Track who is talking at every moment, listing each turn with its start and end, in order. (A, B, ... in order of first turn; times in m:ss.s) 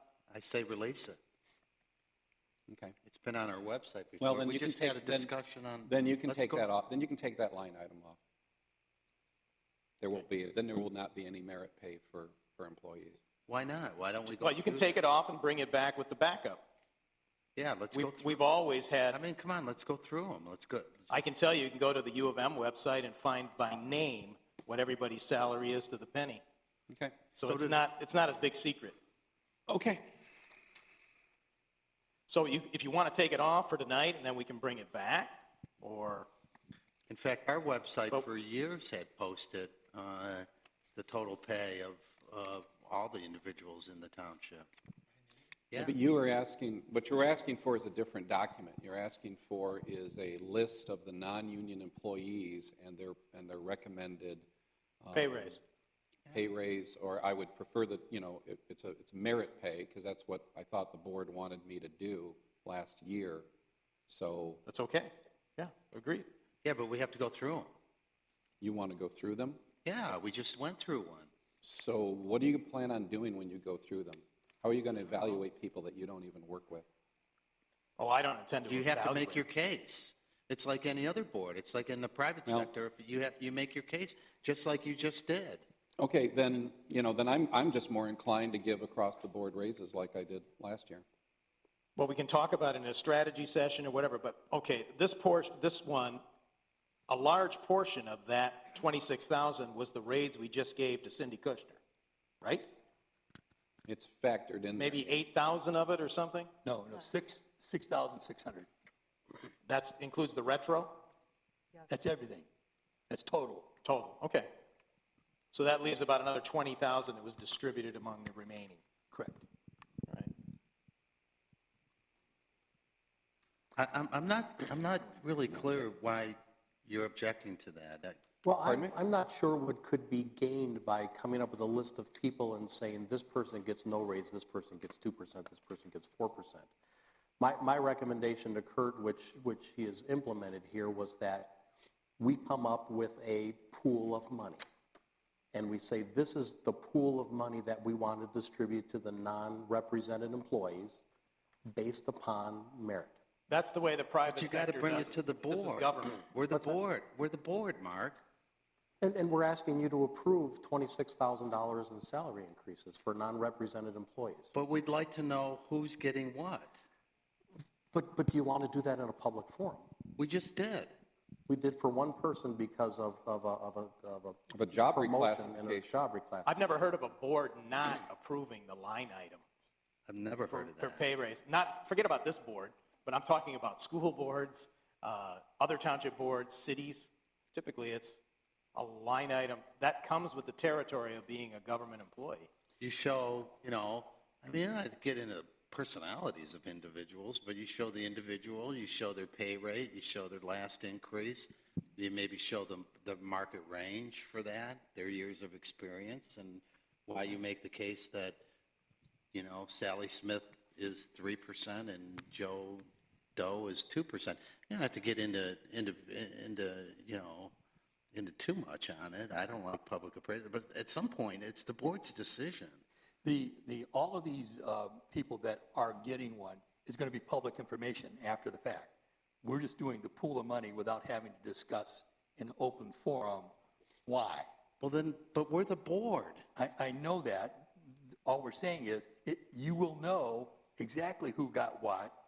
0:00.3-0:01.2 A
0:02.7-0:02.9 B
0:03.0-0:06.7 A
0:04.2-0:05.3 B
0:05.9-0:08.2 B
0:10.0-0:13.2 B
0:13.5-0:15.0 A
0:14.4-0:16.6 C
0:17.6-0:18.5 A
0:17.9-0:19.2 C
0:19.1-0:21.2 A
0:21.1-0:26.4 C
0:26.9-0:27.2 B
0:27.4-0:29.0 C
0:27.4-0:27.8 A
0:29.7-0:30.1 B
0:32.3-0:36.3 C
0:37.1-0:44.7 A
0:45.8-0:54.4 B
0:55.0-0:55.6 B
0:55.1-0:55.6 C
0:56.3-1:03.5 B
1:04.1-1:04.6 B
1:04.6-1:06.3 C
1:06.6-1:07.7 A
1:08.6-1:09.6 B
1:09.8-1:11.3 A
1:11.6-1:16.8 B
1:18.0-1:19.4 C
1:18.6-1:25.6 A
1:26.0-1:31.0 B
1:32.0-1:36.2 C
1:37.1-1:41.8 C
1:42.4-1:42.6 C
1:43.8-1:45.2 B
1:44.8-1:46.5 C
1:46.6-1:48.7 D
1:49.6-1:51.0 C
1:51.9-1:52.5 D
1:53.1-1:53.7 D
1:53.8-1:54.5 C
1:55.5-1:58.8 C
1:59.1-1:59.4 D
2:03.8-2:08.2 A
2:08.4-2:16.7 E
2:08.6-2:08.9 B
2:17.4-2:21.6 E
2:22.2-2:24.6 E
2:25.5-2:31.0 E
2:31.7-2:33.2 E
2:33.5-2:36.2 C
2:34.2-2:38.2 A
2:36.5-2:36.8 E
2:39.0-2:44.5 E
2:44.5-2:46.8 A
2:47.9-2:49.9 E
2:50.2-2:50.9 A
2:51.5-2:56.6 E
2:54.5-2:55.9 B
2:56.4-2:59.4 C
3:00.1-3:01.0 A
3:00.5-3:08.2 C
3:08.7-3:12.5 C
3:12.8-3:28.4 A
3:29.3-3:37.5 A
3:38.1-3:42.8 A
3:43.2-3:53.5 D
3:54.0-3:54.5 D
3:54.8-3:56.4 A
3:56.6-3:57.7 D
3:58.2-4:02.1 D